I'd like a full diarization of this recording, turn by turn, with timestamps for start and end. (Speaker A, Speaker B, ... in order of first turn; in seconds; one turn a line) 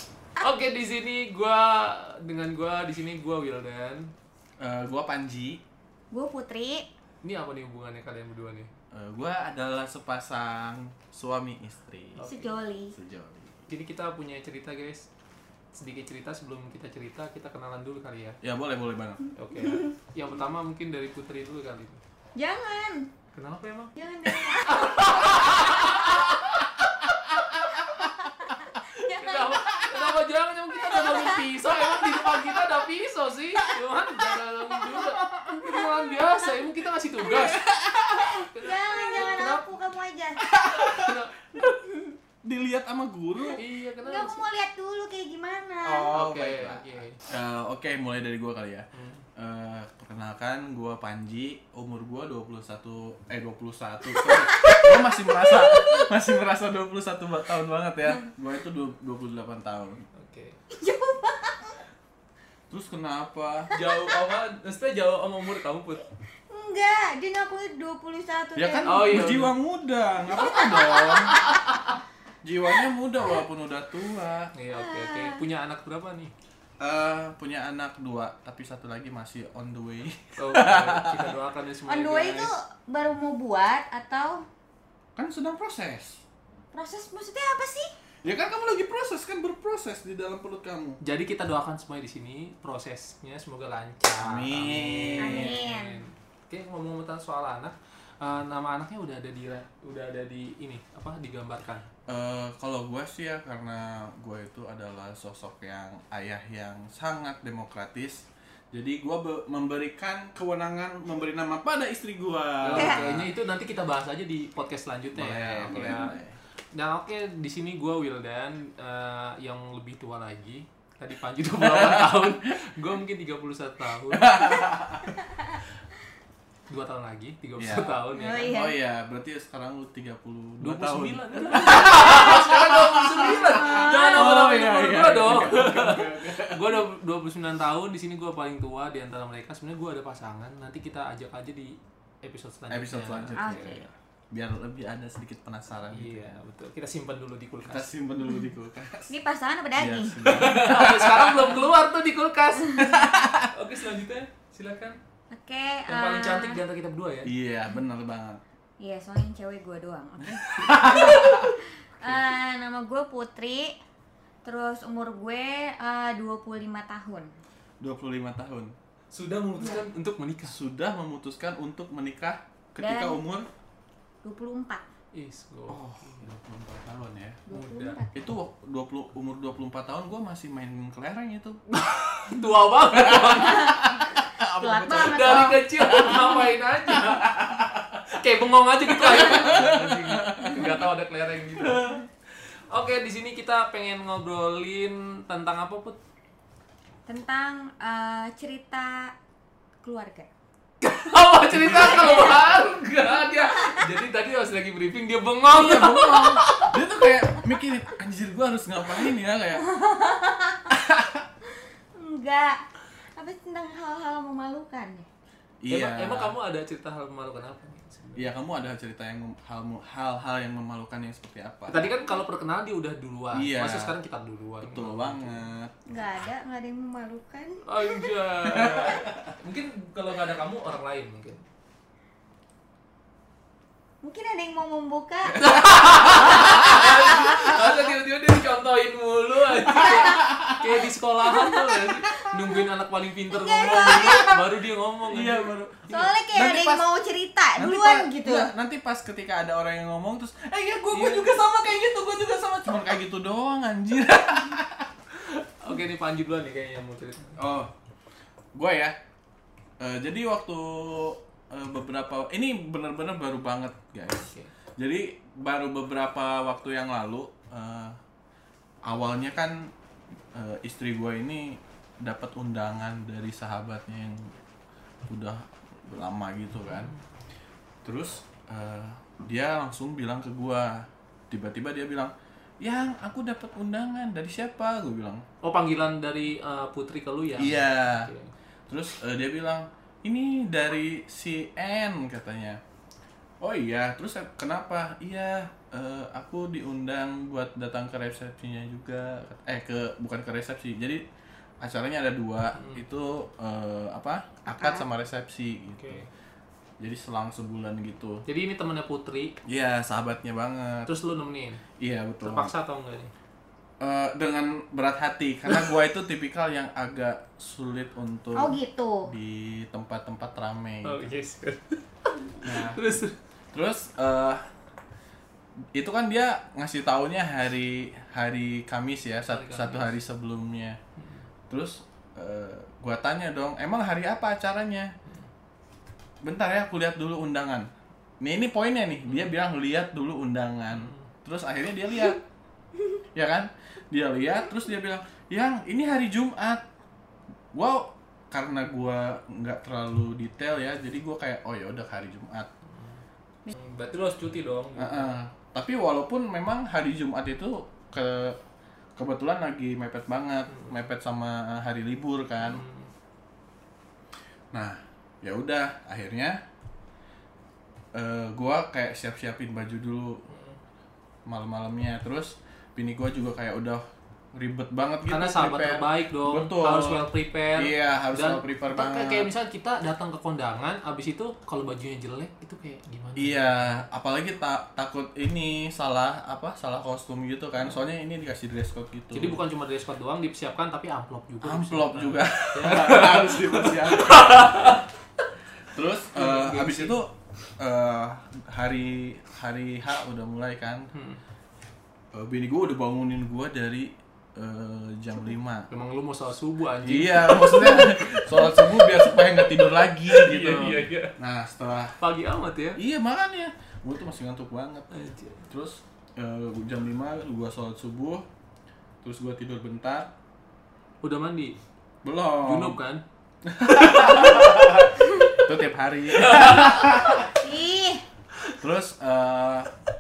Speaker A: 0.4-4.1
Speaker B: 4.6-5.6
Speaker C: 6.1-6.9
Speaker A: 7.2-8.7
Speaker B: 8.9-12.2
Speaker A: 12.1-12.6
Speaker C: 12.2-12.9
Speaker B: 12.9-13.6
Speaker A: 13.7-15.1
Speaker A: 15.7-18.4
Speaker B: 18.4-19.2
Speaker A: 19.4-22.0
Speaker C: 19.6-19.9
Speaker C: 22.4-23.1
Speaker A: 23.4-23.9
Speaker C: 24.0-25.7
Speaker A: 24.7-27.8
Speaker C: 28.1-29.7
Speaker A: 28.9-39.7
Speaker C: 30.9-31.4
Speaker B: 37.3-38.5
Speaker C: 38.6-40.5
Speaker B: 40.5-41.8
Speaker A: 40.8-41.7
Speaker B: 42.3-43.6
Speaker A: 43.5-44.4
Speaker C: 44.0-46.1
Speaker B: 45.8-60.1
Speaker A: 46.1-47.2
Speaker A: 48.9-49.3
Speaker C: 54.2-56.0
Speaker A: 60.1-60.6
Speaker C: 60.7-61.8
Speaker B: 62.7-63.7
Speaker C: 63.7-64.1
Speaker A: 63.7-66.0
Speaker C: 66.5-69.2
Speaker B: 68.5-71.3
Speaker A: 68.8-69.5
Speaker C: 70.3-71.5
Speaker A: 71.3-71.9
Speaker B: 72.4-74.5
Speaker A: 74.5-76.3
Speaker C: 74.7-75.4
Speaker B: 76.8-81.3
Speaker A: 80.4-82.5
Speaker C: 81.9-84.5
Speaker B: 85.2-86.2
Speaker C: 86.7-87.9
Speaker B: 88.2-91.0
Speaker A: 91.0-101.9
Speaker B: 94.2-95.6
Speaker C: 95.2-96.0
Speaker B: 102.1-113.3
Speaker A: 112.6-116.2
Speaker C: 112.7-113.0
Speaker B: 115.1-116.4
Speaker A: 116.7-124.5
Speaker B: 121.6-122.4
Speaker B: 124.1-125.1
Speaker A: 126.7-128.5
Speaker B: 127.6-136.9
Speaker C: 128.1-128.8
Speaker A: 130.6-143.8
Speaker C: 131.9-132.4
Speaker C: 133.2-134.1
Speaker B: 142.7-146.4
Speaker C: 143.4-143.8
Speaker A: 145.9-147.9
Speaker B: 147.6-149.1
Speaker C: 149.1-150.3
Speaker B: 149.8-151.6
Speaker A: 150.2-155.0
Speaker B: 152.8-153.5
Speaker C: 155.3-156.6
Speaker A: 155.9-157.3
Speaker B: 157.2-158.4
Speaker C: 158.8-163.8
Speaker B: 160.2-161.5
Speaker A: 160.7-161.0
Speaker C: 164.4-167.3
Speaker B: 167.8-168.7
Speaker A: 169.1-170.6
Speaker B: 170.4-173.5
Speaker C: 172.8-173.2
Speaker C: 174.2-174.8
Speaker A: 175.1-176.3
Speaker B: 175.7-177.4
Speaker C: 177.5-178.3
Speaker A: 177.5-178.0
Speaker B: 178.1-181.6
Speaker A: 181.7-183.8
Speaker B: 182.9-188.0
Speaker C: 183.4-186.3
Speaker A: 185.0-187.4
Speaker A: 188.1-196.0
Speaker B: 188.9-190.8
Speaker C: 197.1-199.1
Speaker C: 199.8-200.3
Speaker A: 200.8-206.8
Speaker B: 201.5-202.5
Speaker B: 205.5-209.7
Speaker C: 209.6-210.7
Speaker B: 210.7-211.3
Speaker C: 211.9-212.6
Speaker C: 213.2-215.1
Speaker B: 215.6-216.3
Speaker A: 215.7-218.3
Speaker B: 218.2-221.9
Speaker A: 221.7-225.5
Speaker B: 223.3-223.9
Speaker B: 224.6-225.7
Speaker C: 225.9-228.1
Speaker A: 227.7-231.4
Speaker B: 228.5-229.3
Speaker C: 234.0-235.4
Speaker A: 235.4-246.1
Speaker B: 235.4-236.7
Speaker C: 236.2-237.4
Speaker B: 239.6-240.7
Speaker C: 239.7-240.2
Speaker C: 241.4-242.5
Speaker C: 243.3-244.4
Speaker B: 245.1-246.9
Speaker C: 245.9-248.5
Speaker B: 247.6-254.9
Speaker A: 250.9-251.4
Speaker A: 255.2-257.4
Speaker B: 257.4-257.7
Speaker B: 258.6-259.0
Speaker B: 259.8-268.0
Speaker A: 264.2-264.5
Speaker B: 268.9-269.7
Speaker B: 270.3-274.3
Speaker B: 275.1-276.9
Speaker A: 276.6-277.0
Speaker B: 277.9-285.2
Speaker A: 285.4-288.3
Speaker B: 287.4-288.1
Speaker B: 288.7-292.6
Speaker B: 293.4-301.0
Speaker B: 301.6-306.0
Speaker A: 302.5-302.8
Speaker C: 304.5-304.9
Speaker A: 305.7-306.1
Speaker B: 306.8-308.2
Speaker A: 308.3-309.4
Speaker B: 309.4-310.9
Speaker A: 310.9-311.6
Speaker B: 311.8-312.5
Speaker A: 312.2-313.1
Speaker B: 313.8-321.1
Speaker C: 318.3-319.1
Speaker A: 320.8-323.2
Speaker B: 322.4-322.8
Speaker B: 323.5-324.4
Speaker B: 325.7-330.8
Speaker A: 329.2-329.9
Speaker A: 331.0-331.3
Speaker B: 331.5-334.9
Speaker B: 336.2-337.7
Speaker B: 338.2-342.2
Speaker A: 340.7-341.1
Speaker B: 343.1-346.6
Speaker B: 347.5-352.5
Speaker A: 352.6-353.0
Speaker A: 353.5-355.2
Speaker B: 354.8-358.4
Speaker B: 359.0-362.6
Speaker A: 360.5-360.9
Speaker A: 362.4-362.9
Speaker B: 364.5-366.4
Speaker B: 367.9-370.2
Speaker A: 370.3-370.6
Speaker B: 371.3-373.8
Speaker B: 374.4-379.3
Speaker A: 375.1-383.8
Speaker B: 383.2-389.4
Speaker A: 389.1-394.9
Speaker B: 391.4-394.7
Speaker B: 395.7-400.9
Speaker A: 396.1-397.0
Speaker A: 400.9-401.2
Speaker B: 402.1-405.7
Speaker A: 405.7-411.1
Speaker B: 406.8-412.0
Speaker A: 412.0-412.8
Speaker B: 412.8-414.9
Speaker A: 414.9-415.4
Speaker B: 415.5-418.2
Speaker B: 419.0-420.1
Speaker A: 421.0-421.6
Speaker B: 422.0-422.8
Speaker A: 422.4-423.0
Speaker B: 423.4-427.3
Speaker A: 423.7-424.9
Speaker A: 426.1-427.1
Speaker C: 427.1-428.0
Speaker B: 428.6-429.7